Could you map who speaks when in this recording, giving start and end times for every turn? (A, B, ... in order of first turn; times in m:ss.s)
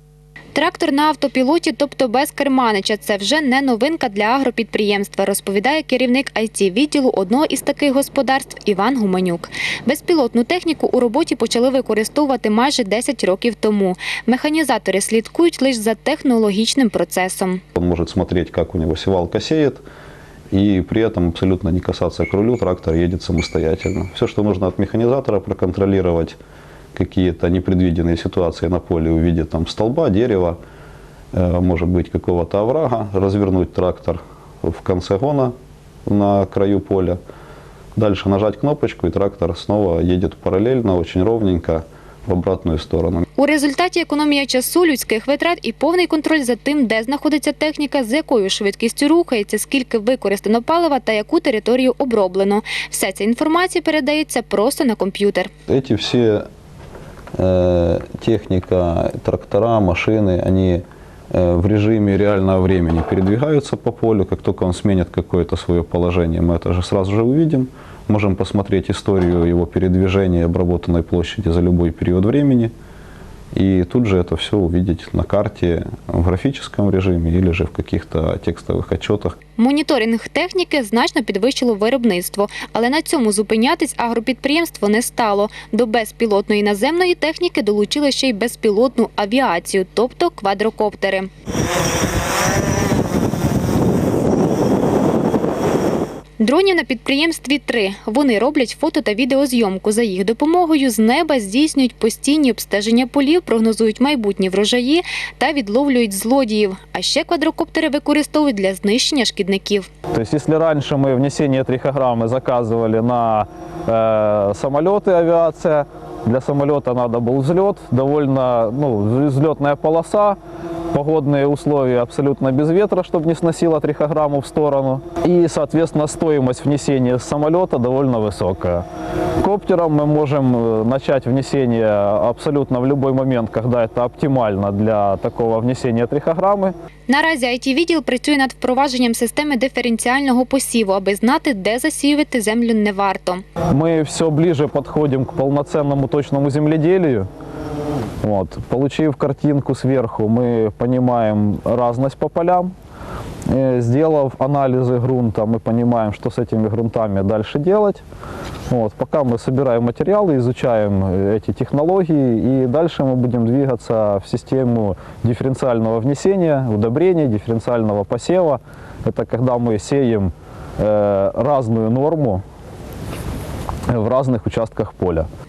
0:00.5-0:17.6 A
0:17.7-0:19.8 B
0:20.5-0:26.4 B
0:26.9-0:30.6 B
0:31.3-0:35.5 B
0:36.0-0:37.2 B
0:38.0-0:43.2 B
0:43.4-0:55.5 A
0:55.7-0:56.4 B
0:57.4-1:12.7 B
1:13.5-1:19.4 B
1:19.6-1:31.3 A
1:36.4-1:49.9 A
1:50.3-2:00.4 C
2:00.9-2:08.8 C
2:09.4-2:16.7 C
2:17.1-2:23.4 A
2:23.8-2:27.3 C
2:28.2-2:32.7 C
2:33.5-2:38.0 C
2:38.7-2:52.4 C
2:53.9-2:55.2 C